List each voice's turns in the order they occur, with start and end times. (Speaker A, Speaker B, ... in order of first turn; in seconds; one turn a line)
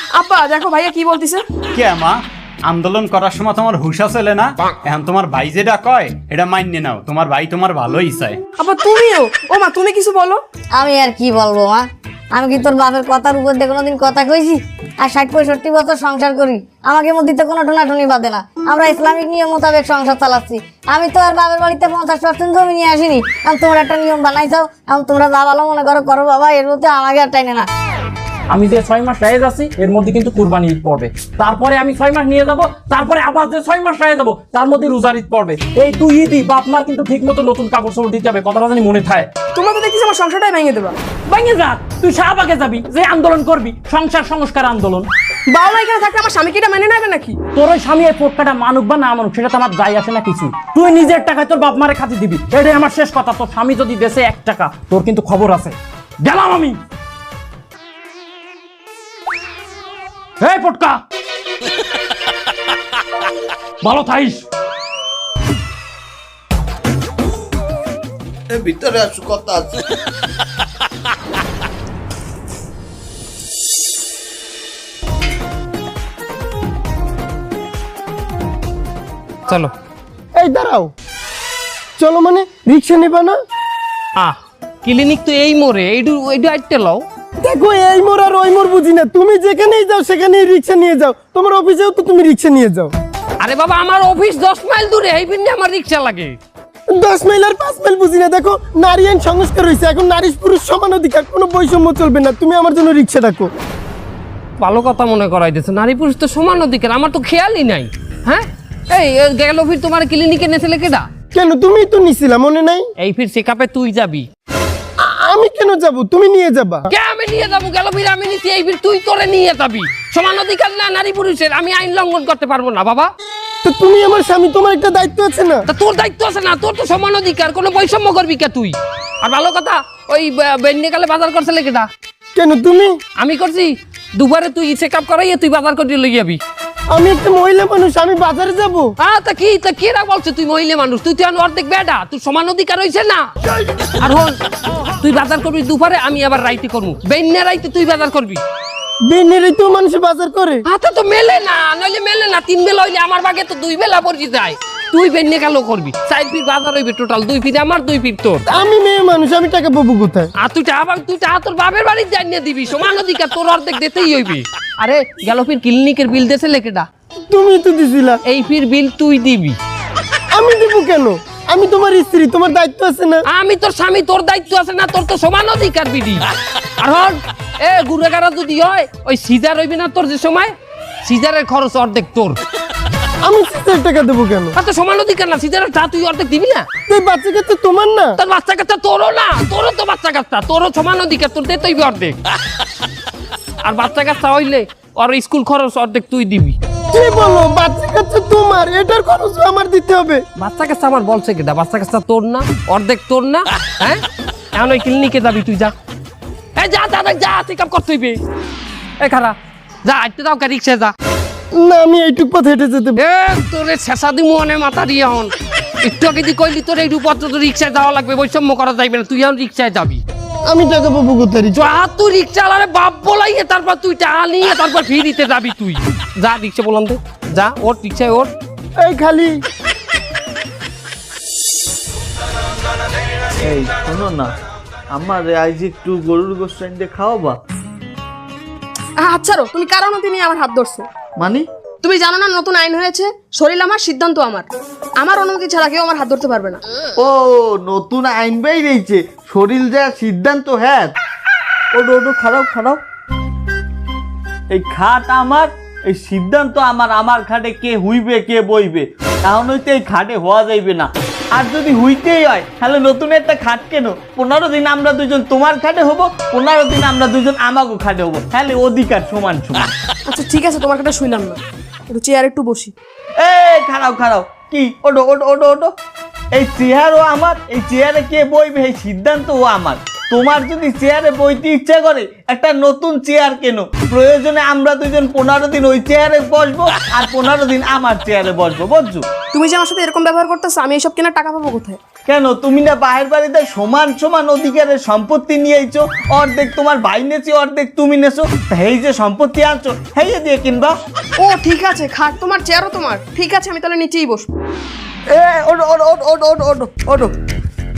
Speaker A: 0.1-1.4
Speaker B: 1.7-8.4
Speaker A: 8.6-10.4
Speaker C: 10.7-27.7
Speaker D: 28.5-39.3
Speaker A: 39.5-41.0
Speaker D: 41.3-45.1
Speaker A: 45.5-47.4
Speaker D: 47.5-56.8
Speaker D: 60.4-61.0
Speaker D: 63.8-64.4
Speaker E: 79.5-79.7
Speaker F: 80.4-80.9
Speaker F: 82.0-83.4
Speaker E: 84.2-87.0
Speaker F: 87.4-92.9
Speaker E: 93.4-96.4
Speaker F: 97.0-103.5
Speaker E: 104.6-111.1
Speaker F: 111.3-112.8
Speaker E: 113.0-114.3
Speaker F: 115.2-116.8
Speaker E: 116.9-123.1
Speaker F: 123.7-125.6
Speaker E: 125.7-131.9
Speaker F: 132.4-132.9
Speaker E: 133.2-136.4
Speaker F: 136.9-138.9
Speaker E: 139.0-143.2
Speaker E: 144.0-144.3
Speaker E: 145.0-148.4
Speaker F: 149.1-150.6
Speaker E: 150.7-158.4
Speaker F: 158.5-160.3
Speaker E: 160.4-166.9
Speaker F: 167.3-168.2
Speaker E: 168.3-169.6
Speaker F: 170.3-173.2
Speaker E: 173.3-176.2
Speaker E: 176.8-180.5
Speaker E: 181.1-182.4
Speaker F: 183.3-184.5
Speaker E: 184.6-186.7
Speaker F: 186.9-188.1
Speaker E: 188.2-192.2
Speaker E: 193.6-196.6
Speaker F: 196.9-200.2
Speaker E: 200.4-204.0
Speaker E: 204.6-205.7
Speaker E: 206.6-208.2
Speaker E: 209.0-210.9
Speaker F: 211.6-212.9
Speaker E: 213.0-220.0
Speaker F: 220.5-221.5
Speaker E: 221.5-228.3
Speaker F: 228.8-229.3
Speaker G: 233.4-234.3
Speaker G: 234.9-237.4
Speaker A: 239.0-240.9
Speaker G: 241.2-241.4
Speaker A: 241.8-246.6
Speaker G: 247.0-250.9
Speaker G: 251.7-252.8
Speaker G: 254.5-269.7
Speaker A: 270.1-272.7
Speaker G: 273.2-275.7
Speaker G: 276.4-289.0
Speaker A: 289.3-291.8
Speaker G: 292.1-300.7
Speaker A: 301.2-304.3
Speaker G: 305.2-307.1